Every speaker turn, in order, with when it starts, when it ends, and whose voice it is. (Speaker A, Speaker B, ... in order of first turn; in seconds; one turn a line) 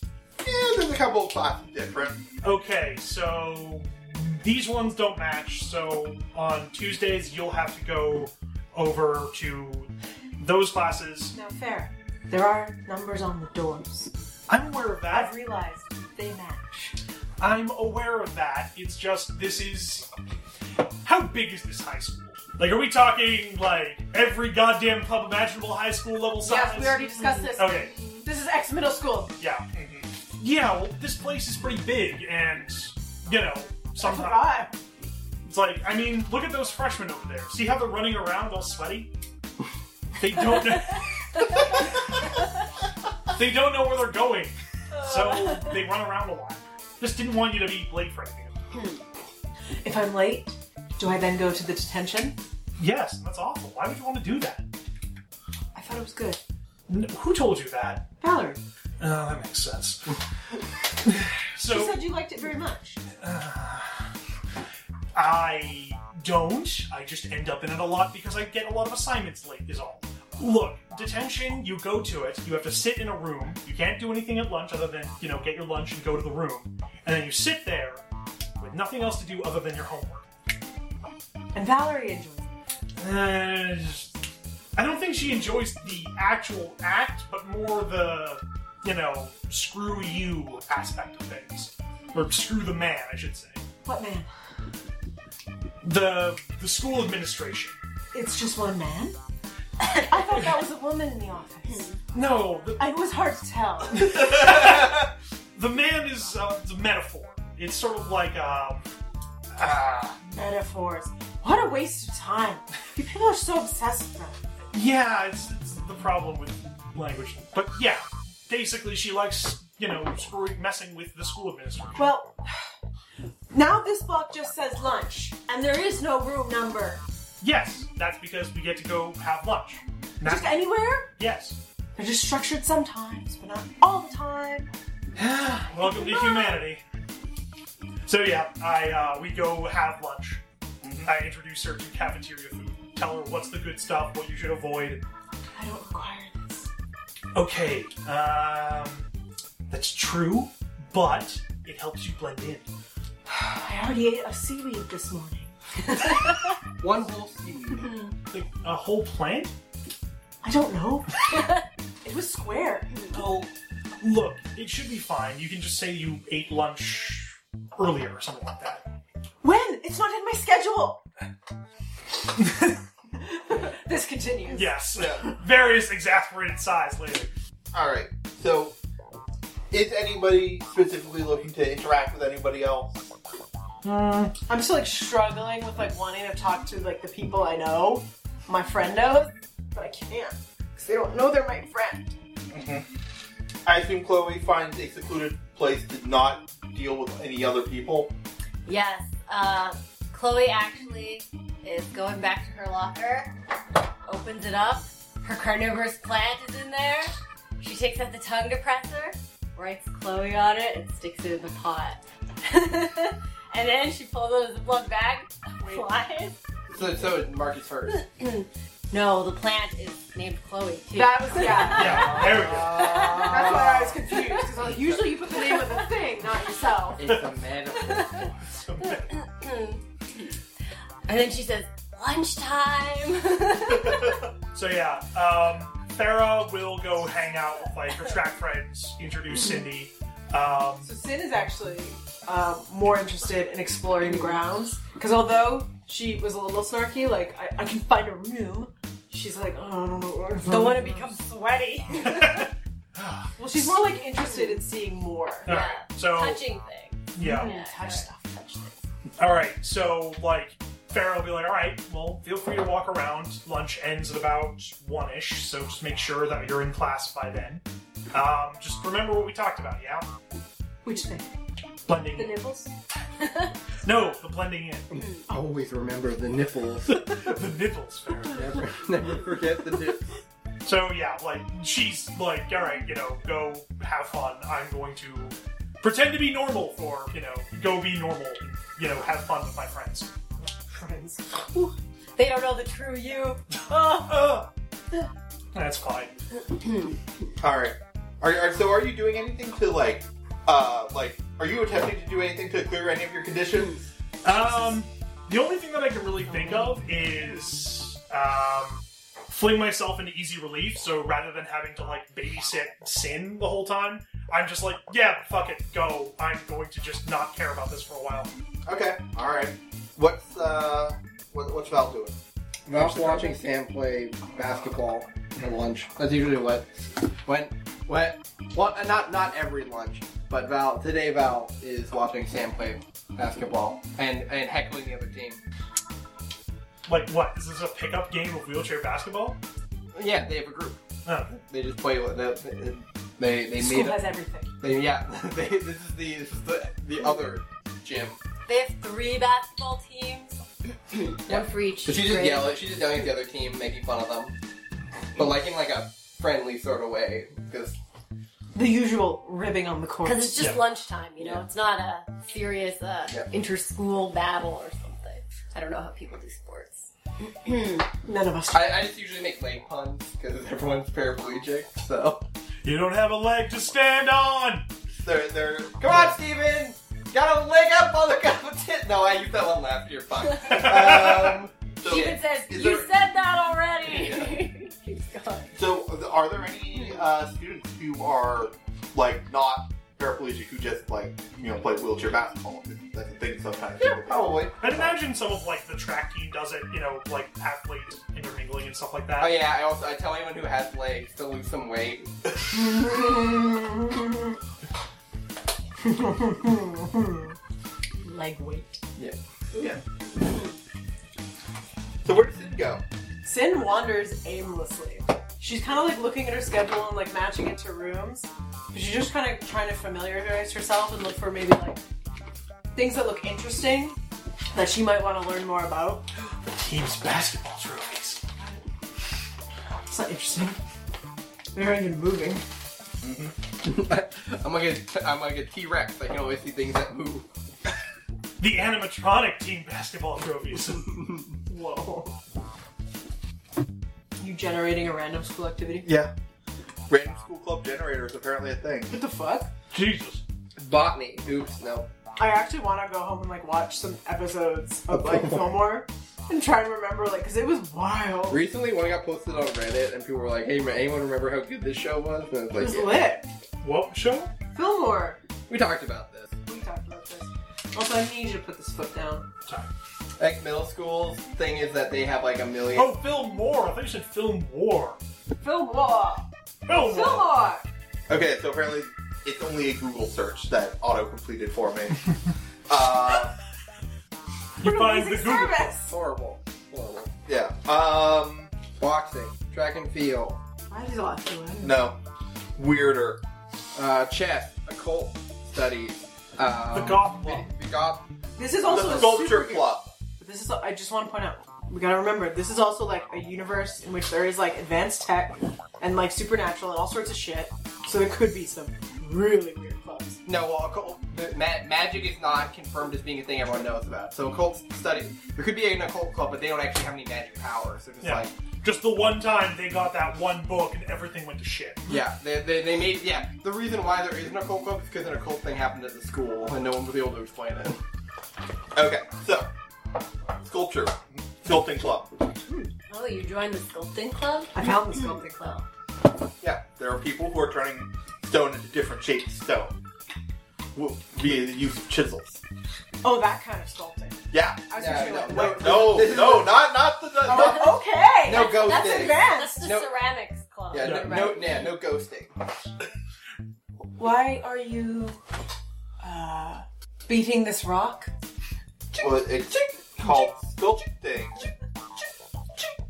Speaker A: 0.4-2.2
Speaker B: 2.4-11.3
Speaker C: 11.3-14.1
Speaker B: 14.5-15.3
Speaker C: 15.1-17.0
Speaker B: 17.4-20.1
Speaker B: 21.0-27.0
Speaker C: 26.4-29.3
Speaker D: 27.0-28.2
Speaker B: 27.6-27.9
Speaker B: 29.4-29.7
Speaker A: 29.7-30.1
Speaker B: 30.4-34.5
Speaker C: 34.0-34.8
Speaker B: 35.5-39.1
Speaker B: 40.2-42.2
Speaker B: 43.3-48.5
Speaker D: 44.9-45.7
Speaker C: 49.8-52.4
Speaker B: 52.8-54.7
Speaker C: 55.8-56.4
Speaker B: 56.9-58.1
Speaker C: 58.2-58.6
Speaker B: 59.0-60.1
Speaker B: 61.0-62.0
Speaker C: 61.6-63.0
Speaker B: 63.2-64.1
Speaker B: 65.2-78.0
Speaker B: 78.6-80.2
Speaker C: 81.5-82.5
Speaker B: 83.0-84.1
Speaker B: 84.8-93.7
Speaker C: 93.8-94.3
Speaker B: 95.8-97.8
Speaker C: 98.1-99.2
Speaker C: 99.8-102.0
Speaker B: 102.1-102.8
Speaker C: 102.8-104.1
Speaker B: 103.9-108.9
Speaker B: 109.6-110.2
Speaker C: 110.2-114.4
Speaker B: 114.7-122.1
Speaker C: 122.0-122.7
Speaker C: 123.5-127.0
Speaker B: 127.4-131.6
Speaker C: 130.2-131.1
Speaker C: 132.0-134.7
Speaker B: 135.2-136.8
Speaker C: 135.8-136.6
Speaker B: 138.1-140.4
Speaker A: 140.8-141.1
Speaker B: 141.0-145.0
Speaker C: 145.6-146.7
Speaker B: 147.3-149.1
Speaker B: 149.7-152.7
Speaker C: 153.3-155.6
Speaker E: 156.8-158.0
Speaker B: 158.3-159.5
Speaker C: 160.4-161.5
Speaker D: 161.3-161.6
Speaker C: 162.0-163.0
Speaker B: 163.1-163.5
Speaker B: 164.0-168.8
Speaker C: 169.4-171.0
Speaker C: 173.2-174.9
Speaker B: 174.5-177.3
Speaker A: 175.0-175.2
Speaker A: 177.7-178.8
Speaker A: 179.7-183.1
Speaker B: 183.8-184.3
Speaker C: 184.5-192.1
Speaker A: 192.5-192.9
Speaker A: 193.7-198.1
Speaker D: 198.7-203.3
Speaker D: 204.1-216.4
Speaker C: 215.6-215.9
Speaker E: 216.7-218.0
Speaker D: 217.9-224.4
Speaker C: 220.9-222.2
Speaker B: 221.7-223.1
Speaker E: 221.8-223.9
Speaker C: 223.1-227.2
Speaker E: 224.6-225.2
Speaker E: 227.0-228.3
Speaker D: 227.9-228.2
Speaker B: 228.5-229.2
Speaker D: 229.0-230.3
Speaker D: 231.1-234.2
Speaker B: 234.5-240.9
Speaker C: 240.8-251.2
Speaker D: 250.5-252.5
Speaker B: 252.0-253.8
Speaker C: 253.4-255.5
Speaker D: 254.3-254.6
Speaker B: 255.5-256.4
Speaker D: 255.5-258.1
Speaker B: 257.1-257.5
Speaker C: 257.2-258.7
Speaker B: 259.2-270.1
Speaker C: 270.8-271.3
Speaker B: 271.9-272.4
Speaker D: 272.2-273.6
Speaker B: 273.8-274.9
Speaker E: 274.9-277.2
Speaker B: 276.9-278.7
Speaker E: 278.3-280.2
Speaker B: 280.6-290.1
Speaker C: 290.7-291.2
Speaker D: 291.5-294.2
Speaker B: 295.5-296.1
Speaker A: 297.4-303.8
Speaker B: 304.2-318.3
Speaker C: 306.3-306.7
Speaker A: 318.7-322.2
Speaker E: 322.7-335.4
Speaker A: 322.7-323.3
Speaker B: 336.9-339.4
Speaker E: 339.9-340.8
Speaker B: 341.1-341.3
Speaker E: 341.3-344.1
Speaker C: 343.6-344.5
Speaker E: 344.6-348.2
Speaker D: 348.5-350.4
Speaker D: 351.2-352.6
Speaker E: 351.3-354.4
Speaker E: 355.2-357.8
Speaker C: 358.5-360.4
Speaker D: 360.1-366.9
Speaker E: 361.2-361.5
Speaker C: 368.0-368.8
Speaker E: 368.5-372.2
Speaker B: 372.6-374.7
Speaker A: 375.0-376.2
Speaker E: 375.8-381.5
Speaker B: 380.5-381.2
Speaker A: 381.8-382.9
Speaker D: 381.8-385.5
Speaker E: 383.9-384.4
Speaker A: 385.6-394.9
Speaker E: 394.1-394.5
Speaker B: 394.6-399.4
Speaker E: 399.2-402.1
Speaker C: 402.5-404.3
Speaker C: 405.8-407.4
Speaker C: 408.0-408.8
Speaker A: 409.6-409.8
Speaker A: 412.0-412.8
Speaker C: 413.2-421.8
Speaker C: 422.7-424.0
Speaker C: 424.5-426.1
Speaker B: 426.5-428.2
Speaker C: 429.9-430.6
Speaker C: 431.5-432.4
Speaker A: 433.0-433.3
Speaker E: 433.6-437.3
Speaker B: 438.4-441.0
Speaker C: 441.5-442.1
Speaker C: 444.2-445.9
Speaker A: 445.9-446.1
Speaker A: 446.9-449.0
Speaker C: 448.9-449.5
Speaker B: 449.7-450.2
Speaker E: 450.6-451.9
Speaker C: 452.2-458.4
Speaker E: 458.3-463.1
Speaker C: 462.6-463.3
Speaker B: 463.6-464.3
Speaker C: 464.5-465.2
Speaker E: 465.5-466.3
Speaker C: 466.5-469.3
Speaker E: 470.2-473.0
Speaker B: 472.7-475.0
Speaker C: 475.4-477.6
Speaker B: 476.7-477.4
Speaker A: 478.1-482.0
Speaker A: 482.7-483.4
Speaker B: 484.6-485.7
Speaker C: 484.6-485.9
Speaker E: 485.8-487.1
Speaker A: 487.3-488.5
Speaker E: 488.8-490.4
Speaker C: 490.7-491.9
Speaker A: 491.6-492.0
Speaker A: 492.6-493.2
Speaker E: 493.8-498.0
Speaker B: 496.7-497.5
Speaker C: 498.4-510.2
Speaker A: 498.7-499.9
Speaker E: 510.3-518.3
Speaker B: 518.0-521.8
Speaker E: 521.9-527.8
Speaker A: 528.8-529.5
Speaker A: 530.4-532.1
Speaker D: 532.9-535.6
Speaker C: 534.5-535.4
Speaker A: 536.4-539.8
Speaker A: 540.8-542.4
Speaker C: 543.0-546.1
Speaker A: 544.3-547.8
Speaker E: 544.8-546.6
Speaker C: 547.2-549.6
Speaker E: 548.2-549.9
Speaker D: 548.3-551.8
Speaker E: 550.7-552.3
Speaker C: 554.0-555.2
Speaker C: 556.0-558.1
Speaker A: 559.0-561.4